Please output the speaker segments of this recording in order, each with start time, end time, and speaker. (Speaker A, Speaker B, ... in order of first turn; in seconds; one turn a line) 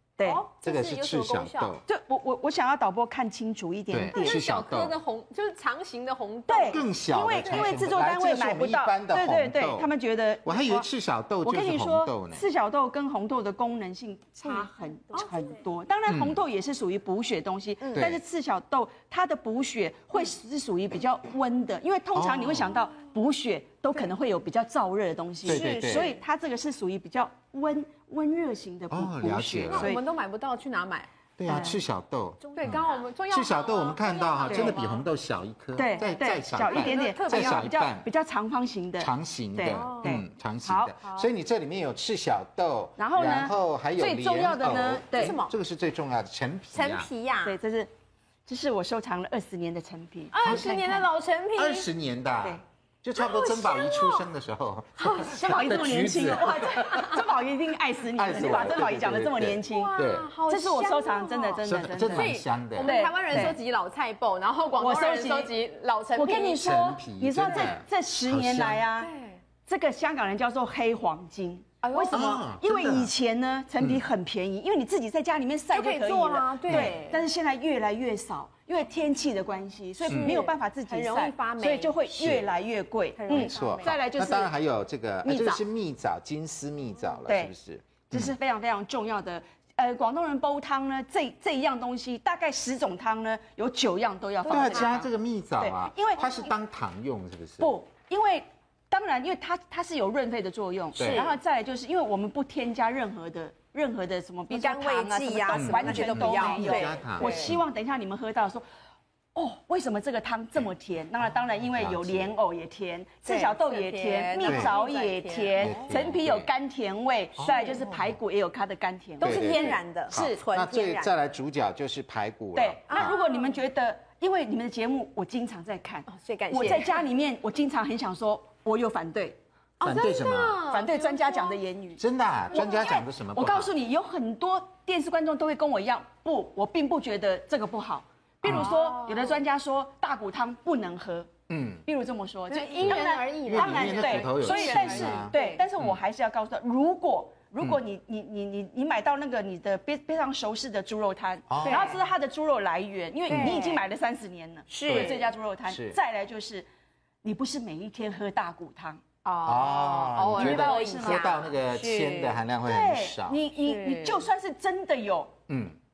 Speaker A: 0.2-0.5
Speaker B: 0.2-1.7
Speaker C: 0.6-1.8
Speaker A: 1.9-4.5
Speaker C: 3.9-5.0
Speaker B: 4.1-8.0
Speaker A: 6.5-10.9
Speaker C: 6.6-9.9
Speaker C: 10.4-12.4
Speaker A: 11.4-30.0
Speaker B: 14.4-15.3
Speaker C: 16.1-16.4
Speaker B: 17.8-18.1
Speaker C: 17.9-18.2
Speaker C: 22.1-22.9
Speaker C: 25.4-26.1
Speaker B: 25.4-26.1
Speaker C: 28.9-30.0
Speaker B: 29.7-31.6
Speaker C: 31.4-38.1
Speaker A: 31.5-31.8
Speaker B: 32.5-35.1
Speaker A: 34.5-34.8
Speaker A: 35.7-41.1
Speaker B: 35.9-36.1
Speaker B: 36.6-37.7
Speaker C: 39.0-47.1
Speaker B: 39.7-40.2
Speaker A: 43.0-43.5
Speaker B: 44.0-45.5
Speaker A: 44.3-45.4
Speaker B: 46.7-47.6
Speaker A: 47.4-47.9
Speaker A: 48.5-51.1
Speaker B: 50.3-51.9
Speaker C: 50.4-50.8
Speaker C: 51.5-57.2
Speaker B: 53.2-54.3
Speaker B: 55.0-57.2
Speaker A: 55.2-63.6
Speaker C: 58.1-60.3
Speaker B: 59.6-66.8
Speaker C: 61.6-63.6
Speaker A: 64.8-65.5
Speaker A: 66.1-69.1
Speaker C: 66.6-68.8
Speaker B: 67.5-67.7
Speaker B: 69.0-69.4
Speaker A: 69.7-84.5
Speaker B: 71.8-72.4
Speaker C: 72.1-73.1
Speaker B: 75.7-77.2
Speaker C: 76.7-77.0
Speaker C: 80.0-80.4
Speaker B: 80.0-82.0
Speaker C: 82.1-82.5
Speaker B: 83.2-83.9
Speaker C: 83.3-88.3
Speaker A: 85.2-85.6
Speaker A: 87.2-87.5
Speaker A: 88.0-96.4
Speaker C: 94.5-97.7
Speaker A: 97.6-108.6
Speaker C: 101.0-101.3
Speaker B: 101.0-101.3
Speaker B: 104.5-107.5
Speaker C: 105.5-107.6
Speaker A: 109.3-120.4
Speaker C: 111.6-112.3
Speaker B: 113.2-116.0
Speaker C: 114.4-114.7
Speaker C: 115.6-116.5
Speaker C: 117.4-118.2
Speaker B: 117.5-117.8
Speaker B: 119.2-121.1
Speaker C: 119.2-123.1
Speaker A: 122.5-129.4
Speaker B: 122.9-123.5
Speaker B: 126.1-127.0
Speaker C: 129.8-130.7
Speaker B: 129.8-131.6
Speaker A: 130.7-132.0
Speaker C: 132.0-133.7
Speaker B: 132.5-133.0
Speaker A: 132.5-141.3
Speaker C: 138.4-138.7
Speaker B: 138.4-139.4
Speaker C: 141.5-141.8
Speaker A: 141.8-156.7
Speaker B: 142.5-145.6
Speaker C: 142.8-145.9
Speaker C: 151.5-152.0
Speaker B: 151.6-152.0
Speaker B: 153.3-153.8
Speaker B: 154.7-155.2
Speaker C: 154.8-156.0
Speaker A: 157.2-159.0
Speaker B: 159.2-162.4
Speaker C: 159.4-163.4
Speaker A: 160.3-161.6
Speaker A: 162.6-165.3
Speaker B: 163.6-164.2
Speaker C: 165.5-165.8